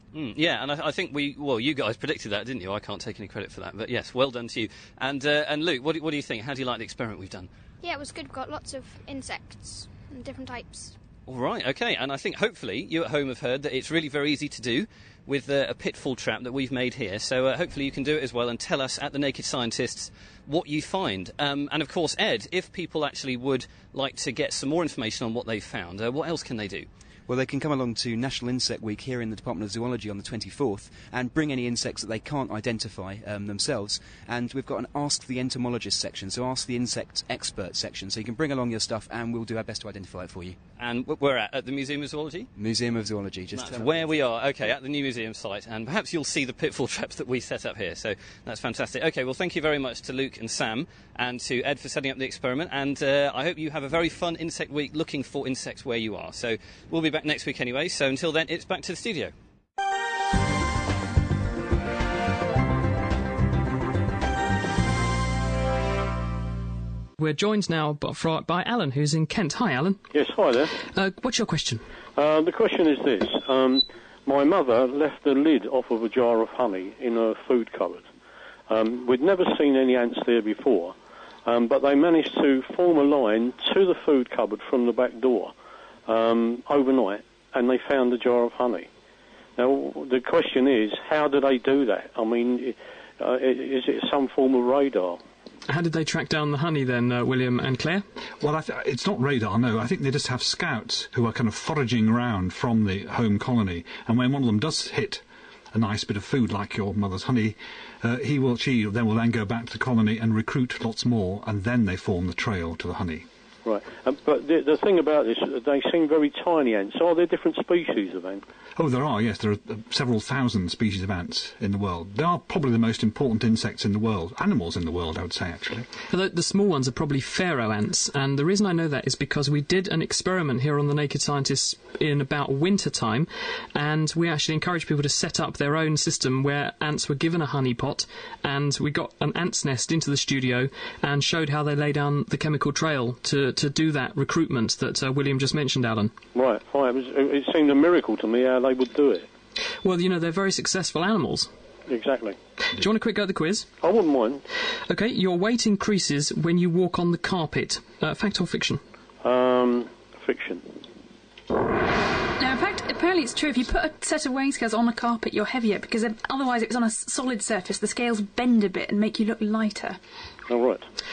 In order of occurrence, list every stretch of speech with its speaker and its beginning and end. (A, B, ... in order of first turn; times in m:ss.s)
0:00.1-0:07.5 A
0:07.8-0:11.0 B
0:11.3-0:26.9 A
0:27.3-0:40.6 C
0:40.8-0:42.5 A
0:42.6-0:44.1 C
0:43.5-0:59.3 A
1:07.2-1:10.0 D
1:10.1-1:10.7 E
1:10.9-1:11.8 D
1:12.2-1:18.1 E
1:18.7-1:25.5 E
1:26.1-1:28.9 E
1:29.6-1:35.2 E
1:35.7-1:38.0 D
1:38.4-1:53.2 F
1:53.6-1:58.4 E
1:58.8-2:05.9 F
2:06.1-2:26.1 D
2:26.3-2:29.3 E
2:29.8-2:31.5 D
2:31.9-2:32.4 E
2:32.8-2:33.7 D
2:33.8-2:34.4 E
2:34.9-2:38.8 D
2:39.2-2:40.9 E
2:42.4-2:50.0 G
2:50.5-2:50.8 E